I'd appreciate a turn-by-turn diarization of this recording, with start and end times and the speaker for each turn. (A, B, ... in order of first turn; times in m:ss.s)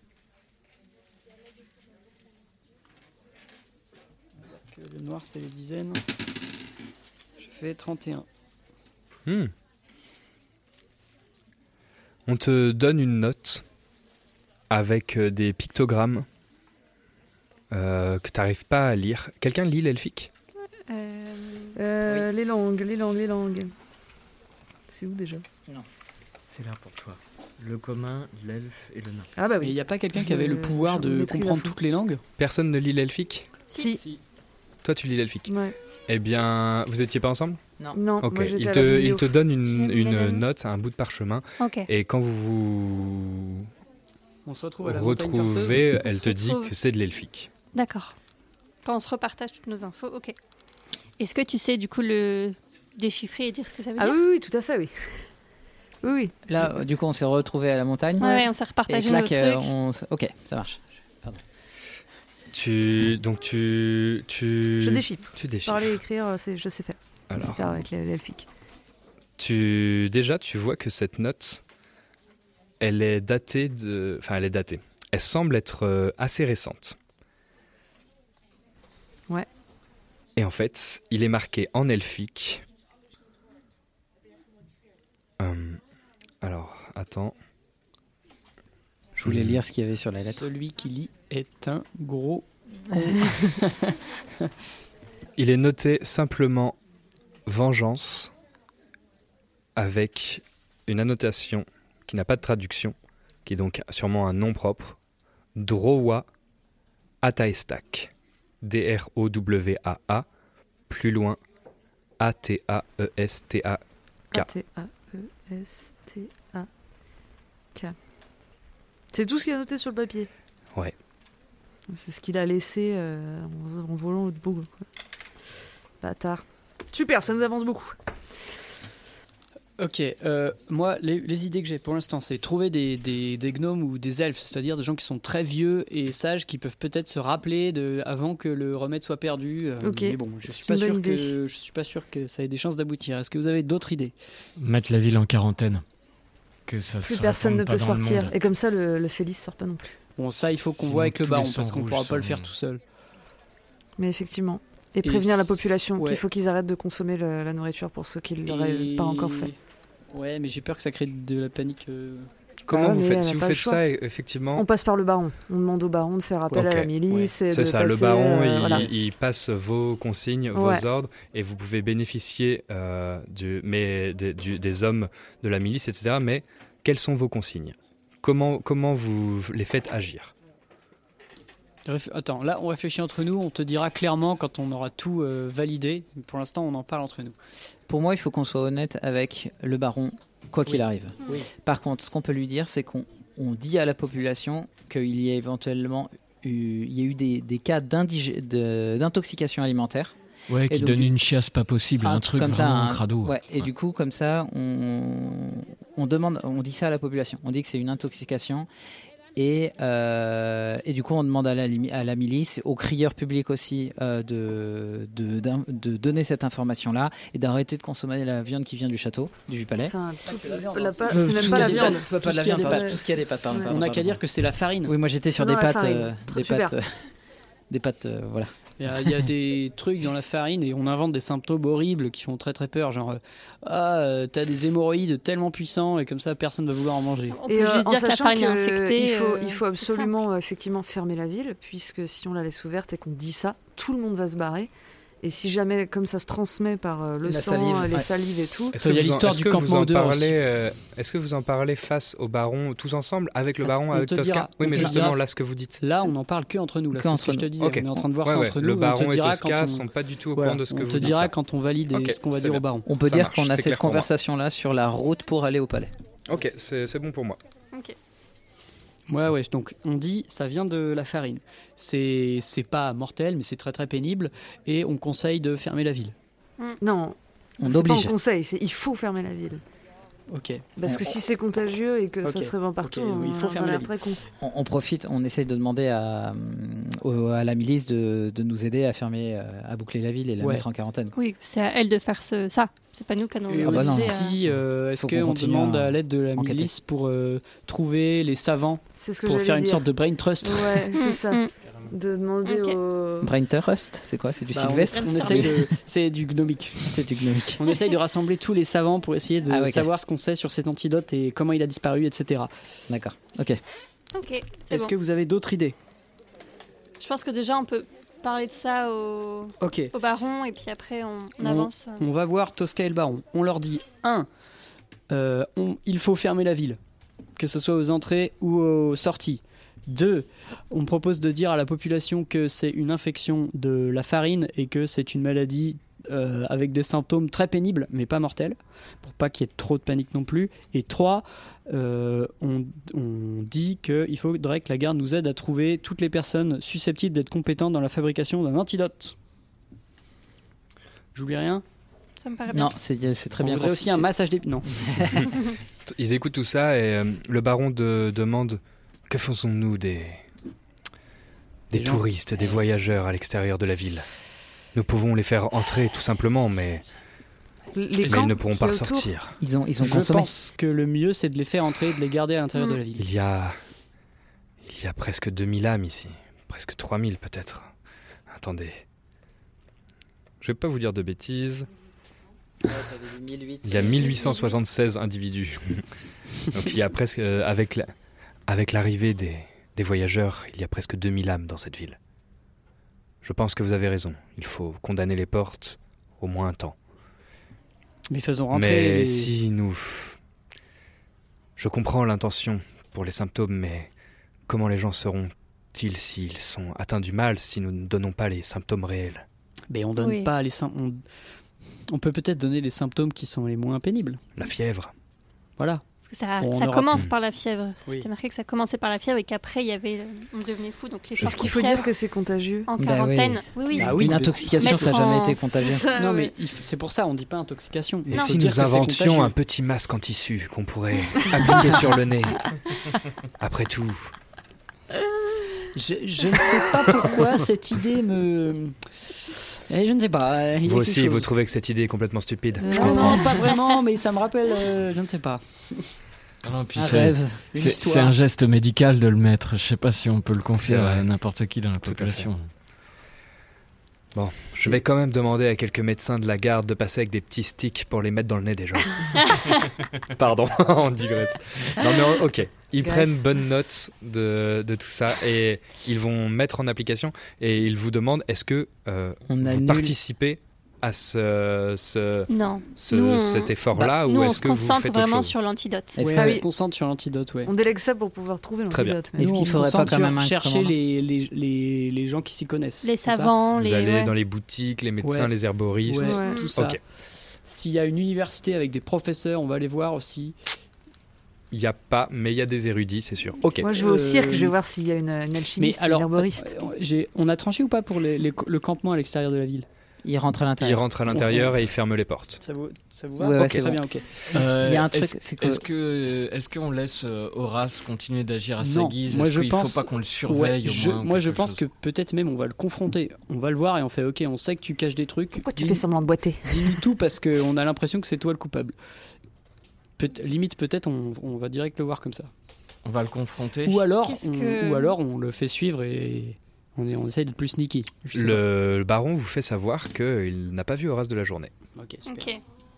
0:04.5-0:06.0 A
0:07.4-0:08.3 A
0:09.3-0:09.5 B
0:12.3-0:13.6 B
0:14.7-0:16.3 B
0:17.7-0:20.3 B
0:20.9-0:21.8 C
0:21.8-0:23.7 D
0:24.9-0:25.4 D
0:26.5-0:29.3 E
0:29.4-0:31.8 D
0:29.6-0:32.2 A
0:32.4-0:33.5 B
0:33.7-0:34.0 C
0:33.7-0:34.0 D
0:34.8-0:35.5 B
0:35.5-0:35.8 D
0:36.1-0:37.6 B
0:38.0-0:40.4 D
0:38.2-0:43.7 B
0:41.6-0:41.9 C
0:44.5-0:45.9 A
0:44.8-0:47.5 B
0:46.0-0:46.7 C
0:47.7-0:48.2 C
0:48.8-0:50.4 C
0:51.2-0:54.2 C
0:54.0-0:54.9 D
0:56.0-0:56.3 D
0:56.5-1:01.4 F
0:58.2-0:59.7 C
1:02.5-1:06.0 B
1:04.8-1:08.5 D
1:07.3-1:07.8 B
1:09.4-1:11.6 B
1:12.8-1:17.0 B
1:20.4-1:22.6 B
1:25.4-1:25.8 B
1:26.4-1:27.4 B
1:29.2-1:30.5 F
1:29.2-1:29.6 B
1:30.3-1:34.5 A
1:35.4-1:36.8 B
1:37.5-1:38.3 B
1:39.8-1:43.0 B
1:43.5-1:45.0 B
1:45.6-1:46.3 B
1:47.2-1:48.1 B
1:48.6-1:50.3 B
1:50.9-1:51.4 B
1:52.2-1:53.8 B
1:54.3-1:56.7 D
1:59.1-2:00.3 D
2:01.9-2:04.7 D
2:06.0-2:08.0 D
2:09.8-2:24.1 A
2:19.8-2:21.4 D
2:24.6-2:25.8 E
2:26.7-2:28.4 E
2:27.0-2:29.9 D
2:30.2-2:32.8 A
2:30.6-2:32.5 E
2:34.0-2:39.5 D
2:35.0-2:36.2 A
2:38.4-2:39.6 A
2:40.1-2:42.3 A
2:42.7-2:44.6 B
2:42.7-2:43.8 D
2:44.6-2:48.9 D
2:46.5-2:46.9 B
2:47.1-2:47.3 A
2:47.5-3:00.3 B
2:48.6-2:48.9 A
2:50.5-2:50.9 D
3:01.9-3:07.4 A
3:07.9-3:20.2 F
3:10.7-3:11.5 A
3:20.5-3:23.4 E
3:20.7-3:21.1 F
3:22.0-3:28.7 F
3:29.4-3:39.9 F
3:39.9-3:42.1 D
3:40.3-3:45.0 A
3:41.1-3:44.2 F
3:42.6-3:43.7 D
3:44.9-3:47.1 F
3:45.4-3:46.8 D
3:47.7-3:48.5 F
3:48.8-3:57.4 A
3:57.3-4:00.1 C
3:57.5-4:04.7 D
4:05.2-4:08.8 D
4:07.3-4:08.0 F
4:08.7-4:10.4 A
4:08.7-4:15.8 B
4:13.7-4:15.2 A
4:14.7-4:15.1 F
4:15.8-4:22.9 A
4:16.9-4:18.1 F
4:17.6-4:21.4 B
4:21.9-4:24.1 B
4:22.9-4:25.9 F
4:26.3-4:27.4 B
4:29.1-4:36.2 A
4:36.8-4:39.6 D
4:37.6-4:38.1 F
4:40.3-4:40.7 A
4:40.8-4:44.2 D
4:42.2-4:44.0 A
4:44.4-4:51.2 F
4:50.4-4:50.6 A
4:51.2-4:54.4 C
4:53.5-5:00.9 A
4:53.6-4:54.2 F
4:55.0-4:56.7 F
4:59.0-4:59.9 D
5:00.4-5:03.3 D
5:01.0-5:01.5 C
5:02.4-5:02.8 C
5:03.2-5:05.7 F
5:04.5-5:06.9 A
5:05.0-5:05.5 C
5:06.9-5:07.7 F
5:07.6-5:12.5 A
5:09.5-5:09.9 F
5:12.9-5:13.6 F
5:14.2-5:14.9 C
5:14.7-5:15.8 A
5:17.0-5:22.0 C
5:19.6-5:19.9 A
5:21.4-5:24.3 A
5:25.1-5:26.8 A
5:27.4-5:49.2 A
5:51.2-5:51.6 A
5:52.2-5:52.7 C
5:52.5-5:54.1 F
5:53.4-5:54.7 A
5:54.7-5:55.3 F
5:55.9-6:00.2 B
6:01.7-6:04.1 B
6:01.7-6:02.0 A
6:04.8-6:06.8 B
6:07.7-6:09.1 D
6:08.0-6:09.4 B
6:09.4-6:10.3 F
6:09.8-6:13.1 A
6:13.0-6:13.6 B
6:14.6-6:17.7 B
6:18.3-6:18.8 B
6:20.4-6:21.7 B
6:22.6-6:24.2 F
6:23.6-6:25.8 B
6:24.1-6:24.6 C
6:26.5-6:27.9 B
6:28.5-6:32.0 B
6:33.2-6:36.8 B
6:38.1-6:39.3 A
6:38.5-6:40.2 B
6:41.6-6:43.9 B
6:44.5-6:49.2 B
6:49.7-6:51.0 A
6:50.0-6:50.3 C
6:51.9-6:54.2 A
6:54.4-6:54.9 B
6:55.6-6:55.8 A
6:56.0-7:01.9 C
6:56.4-6:57.1 A
7:01.2-7:01.8 B
7:01.2-7:02.7 D
7:02.7-7:05.8 C
7:02.8-7:05.9 F
7:03.8-7:04.9 A
7:05.5-7:06.3 D
7:05.9-7:09.4 A
7:08.1-7:12.6 B
7:08.1-7:08.4 C
7:13.4-7:14.1 B
7:15.7-7:18.8 A
7:19.7-7:21.3 A
7:20.6-7:23.3 B
7:22.6-7:23.4 D
7:22.6-7:25.8 A
7:26.4-7:32.5 E
7:26.8-7:27.5 F
7:27.5-7:28.2 A
7:30.6-7:31.1 B
7:31.8-7:32.3 B
7:34.2-7:39.6 B
7:40.2-7:55.4 B
7:42.8-7:43.2 D
7:49.3-7:49.9 F
7:52.3-7:56.0 C
7:56.0-7:56.4 F
7:56.0-7:57.5 A
7:56.1-7:56.4 D
7:57.5-7:59.8 D
7:58.7-7:59.0 B
7:59.2-8:00.8 F
7:59.2-8:03.3 A
8:02.8-8:04.1 C
8:03.5-8:06.8 B
8:05.0-8:05.3 A
8:05.8-8:06.8 A
8:06.0-8:06.5 D
8:06.0-8:06.5 C
8:07.4-8:10.4 A
8:11.5-8:13.7 B
8:13.6-8:16.5 D
8:13.7-8:14.6 A
8:15.6-8:19.7 A
8:20.0-8:20.8 F
8:20.6-8:22.4 B
8:21.1-8:21.6 A
8:22.4-8:24.1 A
8:23.2-8:25.6 F
8:24.3-8:31.6 E
8:28.6-8:35.8 A
8:35.4-8:36.8 D
8:36.4-8:38.8 A
8:40.0-8:42.3 A
8:42.8-8:43.9 E
8:43.6-8:48.4 A
8:44.0-8:45.0 C
8:48.1-8:51.5 B
8:51.8-8:52.3 A
8:52.1-8:52.4 C